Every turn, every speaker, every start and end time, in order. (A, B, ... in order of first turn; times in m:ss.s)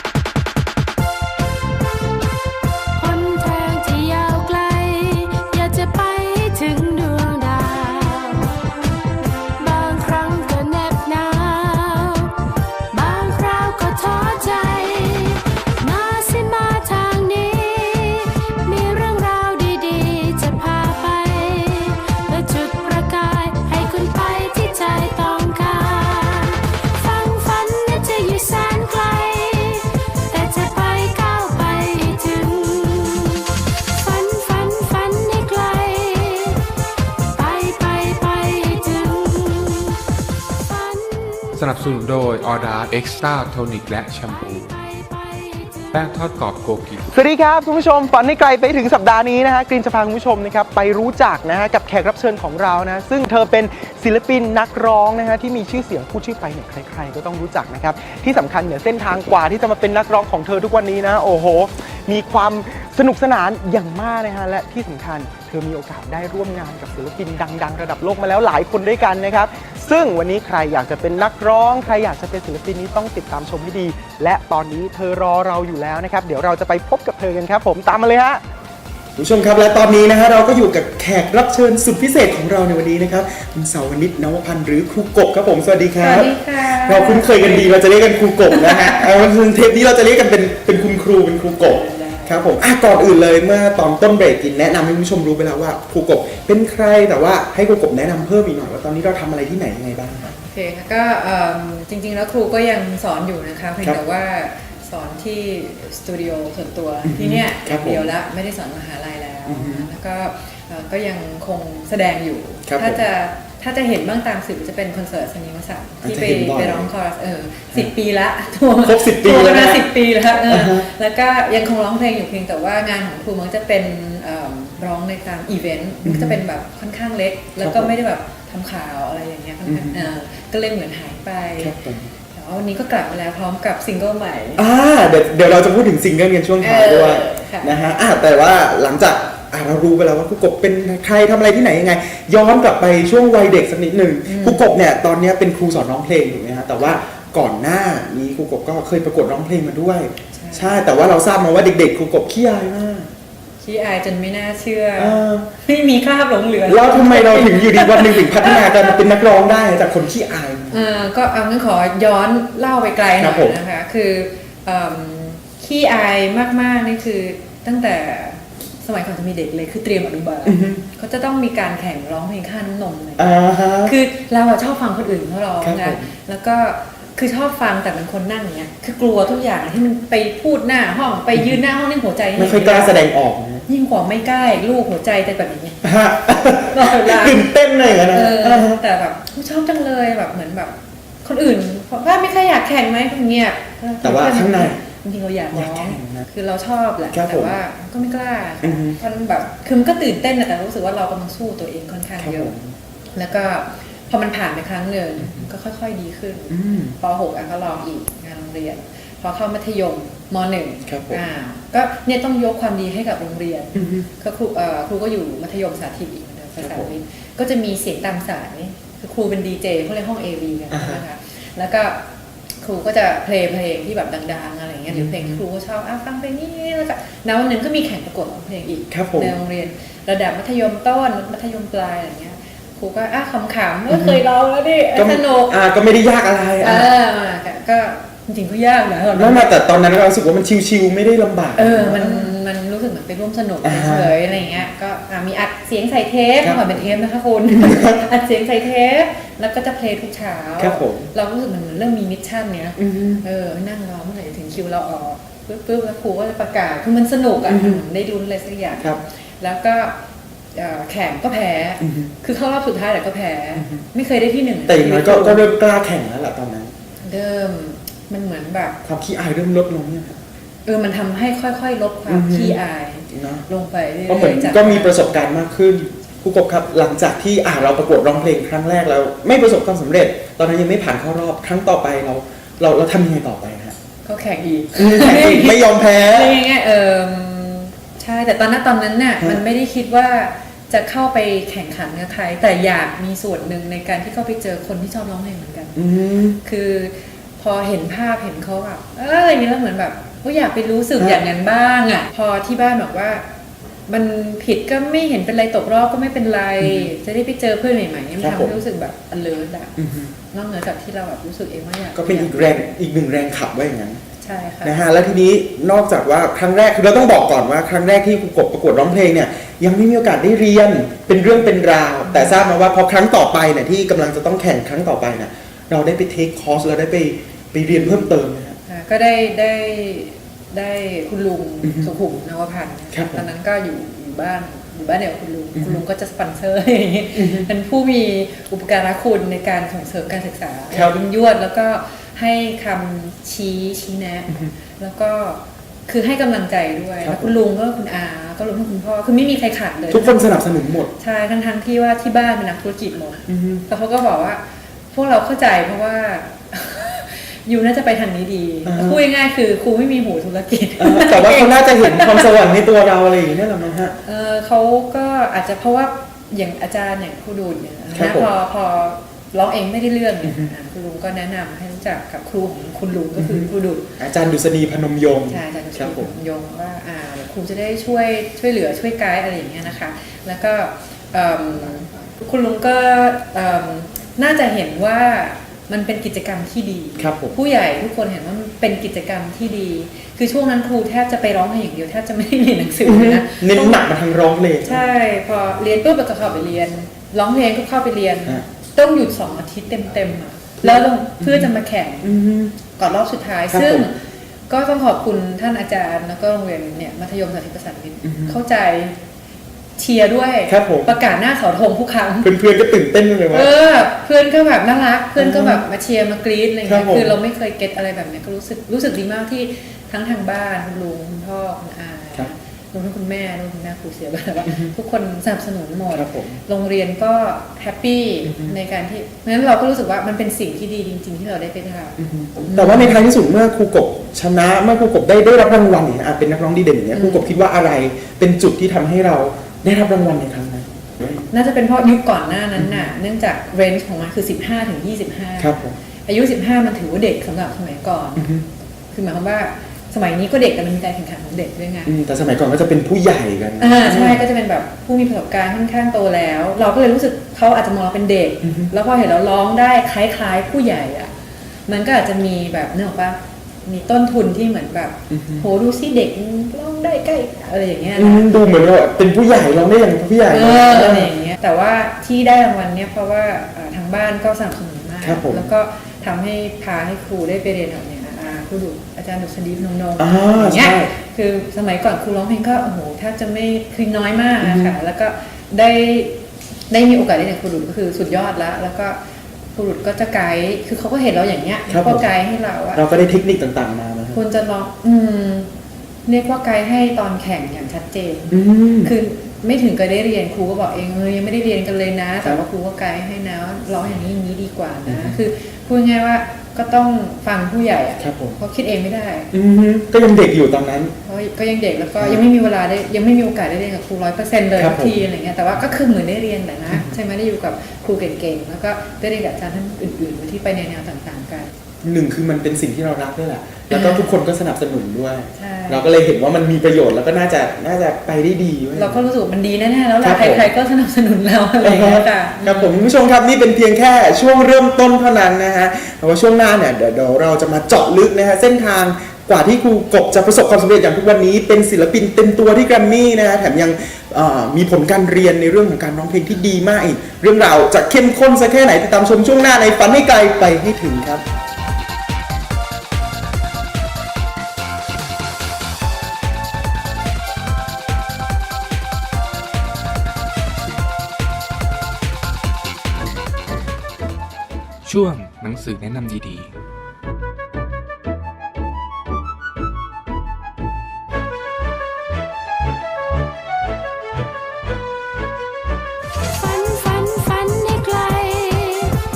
0:02.9-0:08.6 A
0:09.6-0:12.3 A
0:12.9-0:36.6 A
0:37.3-0:41.6 A
0:41.6-0:44.7 B
0:44.4-0:45.9 A
0:45.9-0:47.1 B
0:47.1-1:18.4 C
1:19.2-1:40.3 C
1:26.0-1:27.7 D
1:28.5-1:29.1 D
1:31.6-1:32.4 D
1:40.2-2:11.7 D
1:47.0-1:48.1 C
1:49.5-1:49.9 C
1:52.7-1:53.0 C
1:56.0-1:56.9 C
1:58.8-1:59.9 C
2:00.5-2:00.9 C
2:06.0-2:06.4 C
2:07.6-2:07.9 C
2:09.6-2:10.1 C
2:11.6-2:12.1 C
2:12.3-2:14.6 D
2:14.6-2:33.1 C
2:16.6-2:17.8 D
2:24.2-2:24.6 D
2:30.3-2:30.8 D
2:33.6-2:38.9 D
2:35.0-2:35.5 C
2:36.6-2:40.8 C
2:40.7-2:53.3 D
2:43.2-2:43.6 C
2:50.4-2:50.8 C
2:53.2-2:53.9 C
2:53.8-3:03.0 D
2:55.6-2:56.1 C
3:02.4-3:03.7 C
3:03.7-3:05.8 D
3:05.8-3:08.8 C
3:06.6-3:22.5 D
3:14.0-3:14.8 C
3:15.5-3:16.2 C
3:17.1-3:17.6 C
3:18.6-3:19.0 C
3:22.2-3:22.7 C
3:23.1-3:42.0 D
3:25.2-3:25.4 C
3:26.5-3:27.0 C
3:30.8-3:31.2 C
3:33.7-3:34.1 C
3:36.6-3:36.9 C
3:40.7-3:41.0 C
3:42.6-3:55.6 D
3:44.9-3:45.4 C
3:48.9-3:49.3 C
3:53.9-3:54.2 C
3:54.9-3:56.9 C
3:56.6-3:59.6 D
3:59.1-4:02.3 C
4:01.6-4:20.0 D
4:03.6-4:04.2 C
4:06.4-4:06.8 C
4:07.5-4:08.0 C
4:10.6-4:11.1 C
4:12.8-4:13.2 C
4:17.4-4:17.8 C
4:20.5-4:25.5 D
4:21.8-4:22.1 C
4:23.6-4:23.8 C
4:24.7-4:26.7 C
4:27.0-4:28.8 D
4:28.8-4:30.2 C
4:30.6-4:35.2 D
4:32.1-4:32.6 C
4:33.1-4:33.4 C
4:34.1-4:43.8 C
4:44.0-4:55.8 D
4:44.7-4:46.4 C
4:55.7-4:56.4 C
4:56.4-5:03.2 D
5:01.0-5:01.2 C
5:03.9-5:09.8 D
5:06.6-5:06.9 C
5:08.2-5:08.6 C
5:09.8-5:10.1 C
5:10.3-5:12.4 D
5:11.9-5:14.0 C
5:14.2-5:14.8 D
5:14.6-5:28.6 C
5:22.0-5:22.4 D
5:28.6-5:54.4 D
5:31.6-5:31.9 C
5:32.9-5:33.2 C
5:35.5-5:35.8 C
5:37.1-5:37.5 C
5:47.0-5:47.3 C
5:49.9-5:50.9 C
5:53.3-5:53.6 C
5:54.9-6:02.3 D
5:58.6-5:59.0 C
6:00.8-6:04.0 C
6:04.0-6:14.0 D
6:07.9-6:08.3 C
6:13.2-6:16.1 C
6:15.3-6:33.9 D
6:27.0-6:27.4 C
6:32.8-6:34.8 C
6:34.6-6:44.0 D
6:40.6-6:41.5 C
6:42.0-6:42.6 C
6:43.5-6:43.9 C
6:44.5-6:49.0 D
6:48.0-6:48.4 C
6:49.8-6:52.3 D
6:50.5-6:50.9 C
6:52.2-6:53.6 C
6:53.3-7:13.0 D
6:55.2-6:55.6 C
6:56.6-6:57.2 C
7:05.9-7:06.4 C
7:08.2-7:08.5 C
7:12.0-7:21.2 C
7:16.9-7:17.3 D
7:21.3-7:28.3 D
7:22.5-7:22.9 C
7:25.4-7:25.8 C
7:28.2-7:28.4 C
7:28.9-7:31.9 D
7:31.8-7:34.2 C
7:33.6-7:41.1 D
7:38.4-7:38.7 C
7:41.7-7:48.2 D
7:45.1-7:45.5 C
7:48.0-7:51.1 C
7:50.3-8:06.2 D
7:55.0-7:55.5 C
8:00.0-8:00.9 C
8:04.4-8:04.7 C
8:06.7-8:09.0 D
8:09.5-8:12.8 D
8:11.7-8:12.0 C
8:12.7-8:14.2 C
8:14.1-8:15.5 D
8:16.0-8:29.3 D
8:18.3-8:18.9 C
8:24.8-8:25.2 C
8:28.0-8:28.4 C
8:29.3-8:30.9 C
8:31.0-8:41.5 D
8:34.6-8:35.0 C
8:41.8-8:49.0 C
8:43.7-8:44.1 D
8:45.3-8:45.9 D
8:48.8-8:52.9 D
8:50.0-8:50.5 C
8:51.6-9:11.2 C
9:24.8-9:26.5 B
9:36.2-9:39.0 A